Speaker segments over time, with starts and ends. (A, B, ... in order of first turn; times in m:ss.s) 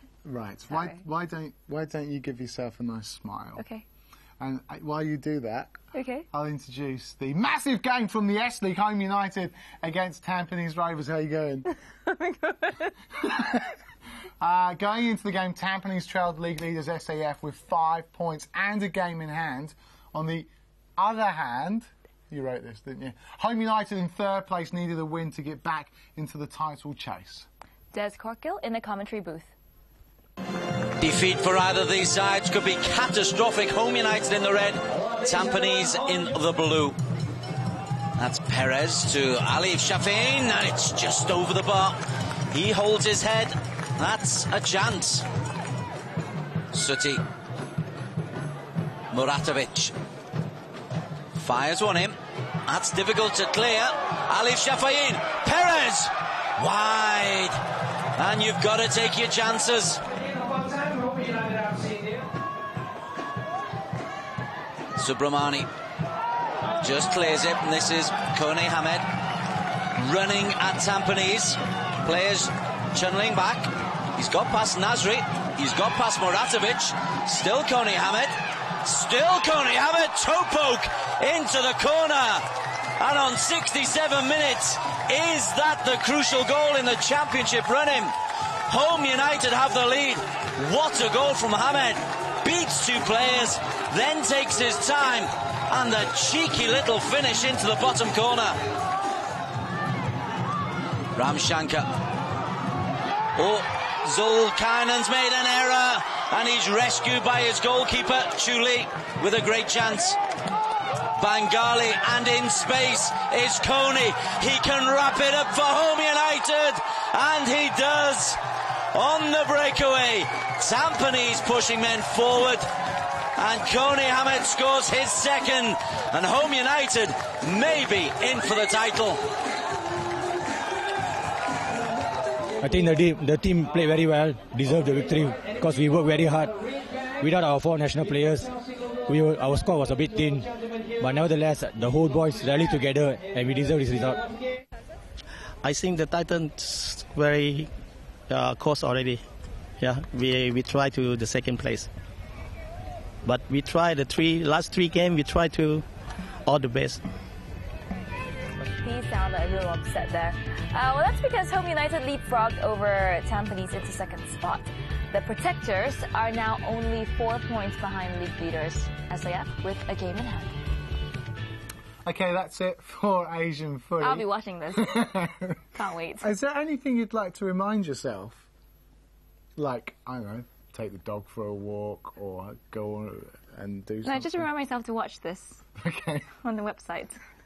0:00.2-0:03.6 A
0:00.7-0:01.0 B
0:03.6-0:03.8 B
0:04.4-0:05.8 A
0:05.9-0:06.3 B
0:06.3-0:11.7 A
0:12.1-0:12.8 B
0:13.2-0:13.7 A
0:14.4-0:27.5 A
0:27.9-0:29.5 B
0:31.0-0:37.0 C
0:38.2-0:42.0 C
0:42.5-0:45.2 C
0:46.7-0:47.2 C
0:49.1-0:49.9 C
0:51.4-0:52.1 C
0:52.7-0:57.6 C
0:58.2-1:00.0 C
1:05.0-1:05.7 C
1:06.8-1:09.0 C
1:10.0-1:18.3 C
1:18.8-1:22.4 C
1:23.0-1:28.1 C
1:28.7-1:38.6 C
1:41.2-1:41.9 C
1:43.4-1:50.2 C
1:51.1-1:58.4 C
1:58.9-2:02.6 C
2:03.4-2:09.2 C
2:12.6-2:16.5 D
2:17.2-2:18.5 D
2:19.1-2:20.4 D
2:21.0-2:24.2 D
2:25.6-2:27.7 E
2:28.3-2:29.2 E
2:29.8-2:31.9 E
2:33.2-2:35.8 E
2:36.5-2:37.0 E
2:38.8-2:50.6 B
2:52.0-2:55.5 A
2:54.0-2:55.1 B
2:55.7-2:56.3 B
2:56.2-2:58.5 A
2:59.6-3:04.5 A
3:04.0-3:05.6 B
3:05.8-3:06.3 A
3:06.4-3:07.2 B